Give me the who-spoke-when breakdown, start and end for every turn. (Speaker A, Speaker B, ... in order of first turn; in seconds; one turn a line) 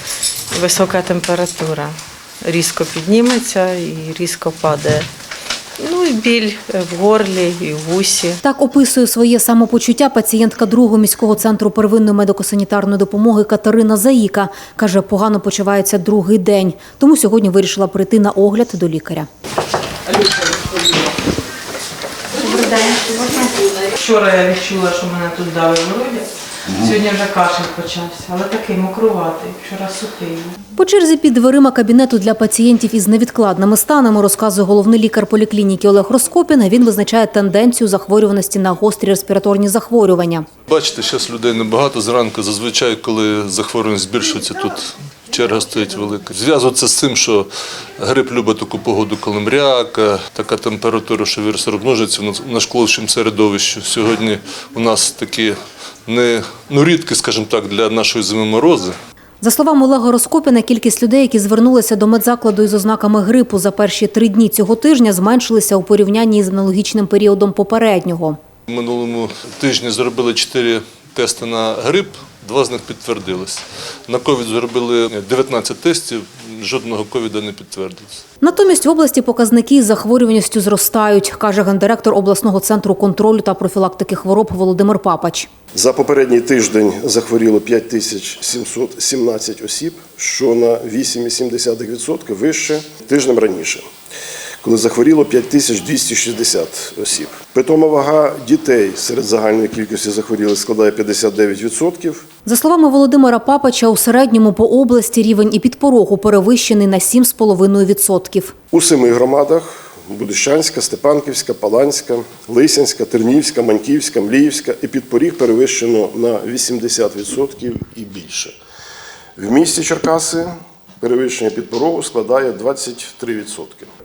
Speaker A: 0.5-5.1
Speaker A: 5.8-8.4
Speaker B: 8.4-19.3
Speaker A: 22.4-30.6
Speaker B: 22.5-23.5
Speaker B: 30.8-40.5
Speaker C: 40.7-47.5
Speaker C: 48.0-55.5
Speaker C: 56.1-59.0
Speaker B: 59.4-68.4
Speaker C: 68.7-78.2
Speaker B: 78.4-85.5
Speaker D: 85.7-93.8
Speaker D: 94.6-102.2
Speaker B: 102.5-108.6
Speaker D: 108.7-118.6
Speaker D: 119.4-123.9